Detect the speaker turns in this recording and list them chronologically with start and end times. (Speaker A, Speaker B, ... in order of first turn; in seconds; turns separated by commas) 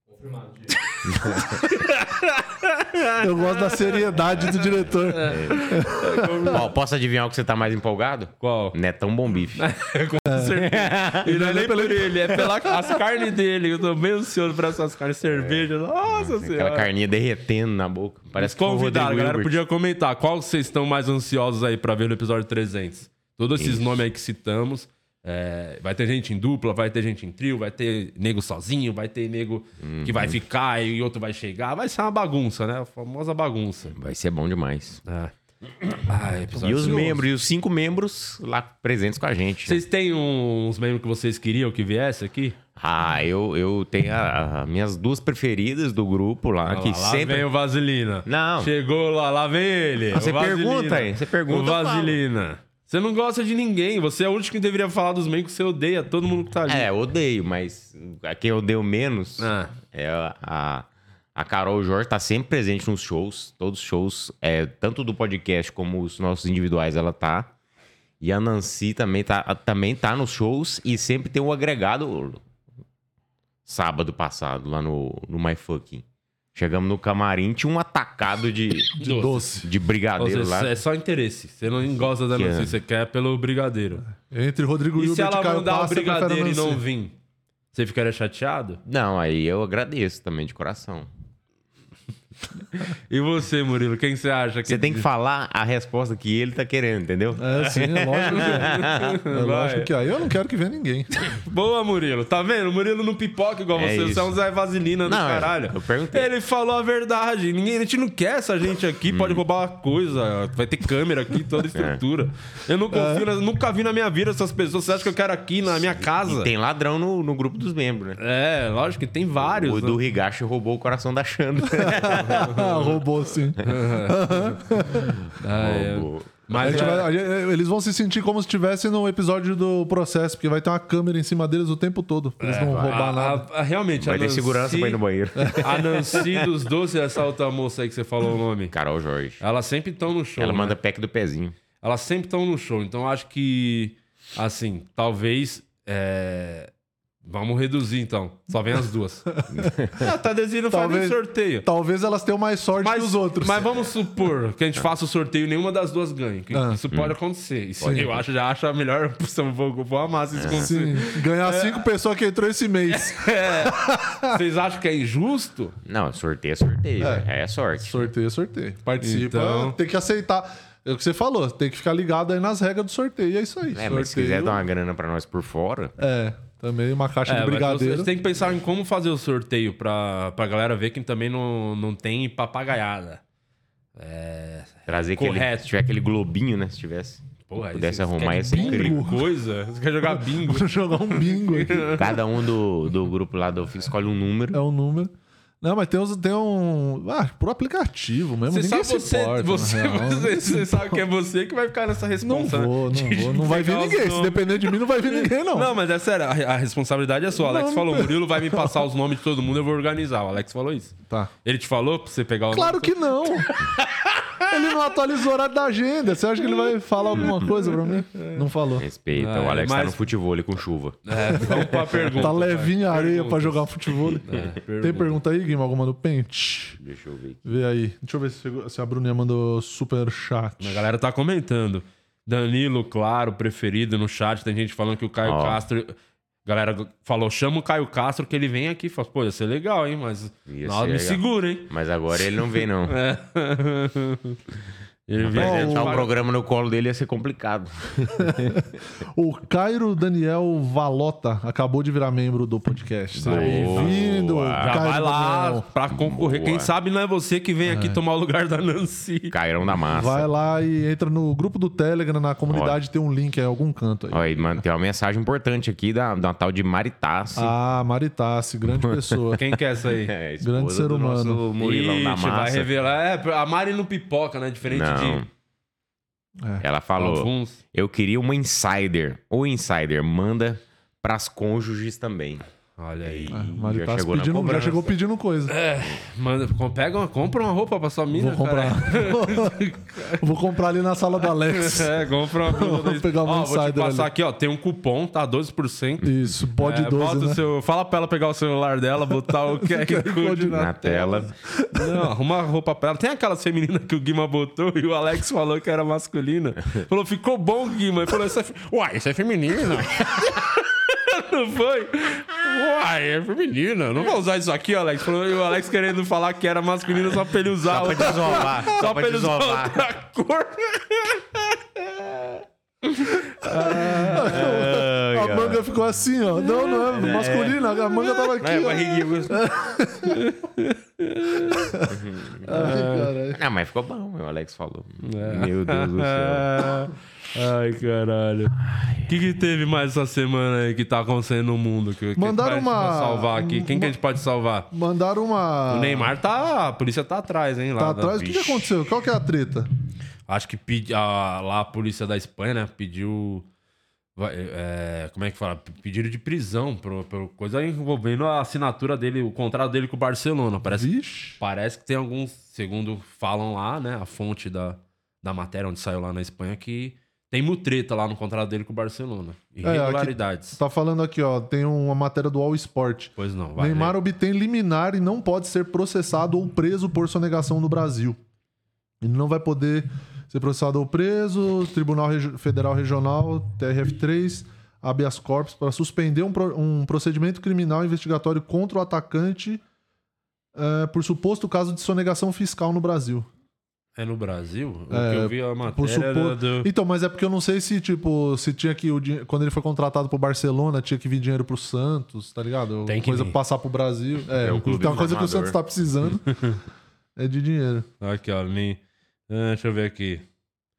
Speaker A: 0.6-6.7, Speaker B: 1.0-1.6, Speaker C: 3.2-6.5, Speaker B: 5.2-5.8, Speaker B: 6.4-9.7, Speaker A: 8.4-8.8, Speaker A: 9.5-16.9, Speaker C: 10.2-10.7, Speaker B: 10.6-11.3, Speaker C: 11.2-13.0, Speaker B: 15.3-19.6, Speaker A: 18.4-34.0, Speaker B: 23.6-23.9, Speaker B: 29.8-30.4, Speaker B: 33.9-35.0, Speaker A: 35.0-35.3, Speaker A: 35.9-37.2, Speaker C: 36.5-37.2, Speaker B: 36.6-39.8, Speaker A: 39.6-42.6, Speaker B: 42.8-47.5, Speaker A: 46.6-56.9, Speaker B: 48.2-48.7, Speaker B: 50.1-52.2, Speaker B: 56.7-67.5, Speaker A: 59.4-59.7, Speaker B: 68.2-72.4, Speaker B: 73.7-79.0, Speaker A: 79.0-79.5, Speaker C: 79.0-79.7, Speaker B: 79.6-80.7, Speaker A: 80.2-84.0, Speaker B: 82.1-82.8, Speaker C: 84.2-86.8, Speaker A: 85.0-87.1, Speaker A: 87.7-88.8, Speaker B: 88.8-91.1, Speaker A: 92.7-95.1, Speaker B: 94.7-99.2, Speaker C: 97.4-101.1, Speaker A: 97.6-99.9, Speaker A: 101.3-116.5, Speaker B: 103.7-104.3, Speaker B: 105.0-106.3, Speaker B: 109.0-109.4, Speaker B: 111.7-112.0, Speaker C: 112.9-113.2, Speaker B: 115.7-118.2, Speaker A: 118.2-120.0, Speaker B: 119.4-122.6, Speaker C: 121.7-125.2, Speaker A: 122.2-123.0, Speaker A: 123.6-124.6, Speaker B: 125.0-126.9, Speaker A: 125.4-127.1, Speaker C: 126.6-133.4, Speaker A: 132.4-135.0, Speaker B: 132.6-133.0, Speaker B: 134.0-136.5, Speaker C: 135.3-135.6, Speaker A: 135.5-138.7, Speaker B: 138.7-139.4, Speaker A: 139.4-140.8, Speaker B: 140.4-141.6, Speaker A: 141.8-146.7, Speaker A: 147.2-149.3, Speaker C: 149.4-149.6, Speaker B: 149.5-150.1, Speaker A: 149.9-151.7, Speaker C: 150.7-153.6, Speaker A: 152.8-161.8, Speaker C: 156.5-156.8, Speaker B: 157.8-158.2, Speaker C: 157.8-158.1, Speaker B: 160.3-160.7, Speaker C: 160.5-164.4, Speaker A: 162.9-165.8, Speaker B: 165.8-168.1, Speaker C: 167.0-167.3, Speaker C: 167.8-174.6, Speaker A: 169.0-169.8, Speaker B: 173.7-175.9, Speaker C: 176.0-178.1, Speaker A: 177.3-183.2, Speaker A: 183.9-185.7, Speaker B: 184.9-189.0, Speaker A: 187.5-192.2, Speaker C: 188.4-189.3, Speaker C: 190.1-192.1, Speaker B: 191.9-194.6, Speaker C: 194.5-201.0, Speaker A: 198.5-214.7, Speaker C: 202.2-205.7, Speaker C: 207.3-208.8, Speaker C: 212.5-213.5, Speaker C: 214.4-218.8, Speaker A: 217.1-218.4, Speaker B: 218.8-222.3, Speaker A: 219.1-220.1, Speaker A: 221.1-225.2, Speaker C: 221.6-226.8, Speaker B: 224.2-224.4, Speaker B: 226.8-227.4, Speaker C: 227.4-230.8, Speaker A: 230.6-241.7, Speaker B: 235.2-235.6, Speaker B: 240.5-242.9, Speaker A: 242.4-244.4, Speaker A: 245.1-246.1, Speaker B: 245.2-248.6, Speaker C: 245.3-246.0, Speaker C: 248.2-255.7, Speaker B: 253.2-254.8, Speaker A: 253.2-259.3, Speaker B: 255.9-256.7, Speaker C: 257.6-258.0, Speaker B: 259.3-260.3, Speaker C: 259.9-264.6, Speaker B: 262.5-262.8, Speaker B: 264.1-267.5, Speaker C: 267.3-269.4, Speaker B: 268.7-269.3, Speaker A: 269.3-270.1, Speaker B: 269.9-272.7, Speaker C: 270.4-271.4, Speaker A: 271.6-275.2, Speaker B: 274.6-275.3, Speaker B: 276.6-282.4, Speaker A: 277.0-277.6, Speaker A: 282.8-283.4, Speaker B: 283.0-284.9, Speaker C: 283.3-285.5, Speaker A: 285.5-290.2, Speaker C: 288.1-294.1, Speaker A: 291.2-322.4, Speaker C: 296.0-297.4, Speaker C: 299.6-300.7, Speaker B: 300.4-301.3, Speaker C: 301.4-302.1, Speaker B: 317.6-319.8, Speaker A: 323.0-324.6, Speaker C: 323.4-330.3, Speaker B: 323.8-325.6, Speaker B: 326.7-329.4, Speaker A: 330.0-331.8, Speaker C: 331.5-333.4, Speaker B: 331.9-336.7, Speaker A: 332.5-333.1, Speaker A: 335.0-344.7, Speaker B: 338.6-339.3, Speaker C: 342.2-343.9, Speaker C: 344.7-346.1, Speaker A: 345.7-348.7, Speaker C: 347.8-349.7, Speaker A: 350.3-353.5, Speaker A: 354.1-370.6, Speaker C: 360.6-361.4, Speaker C: 369.6-378.2, Speaker A: 373.2-374.0, Speaker C: 379.0-389.6, Speaker C: 390.5-393.3, Speaker A: 393.9-396.7, Speaker C: 394.9-406.4, Speaker A: 402.8-403.4, Speaker B: 404.3-405.6, Speaker A: 406.3-406.6, Speaker C: 407.1-407.9, Speaker A: 408.0-410.2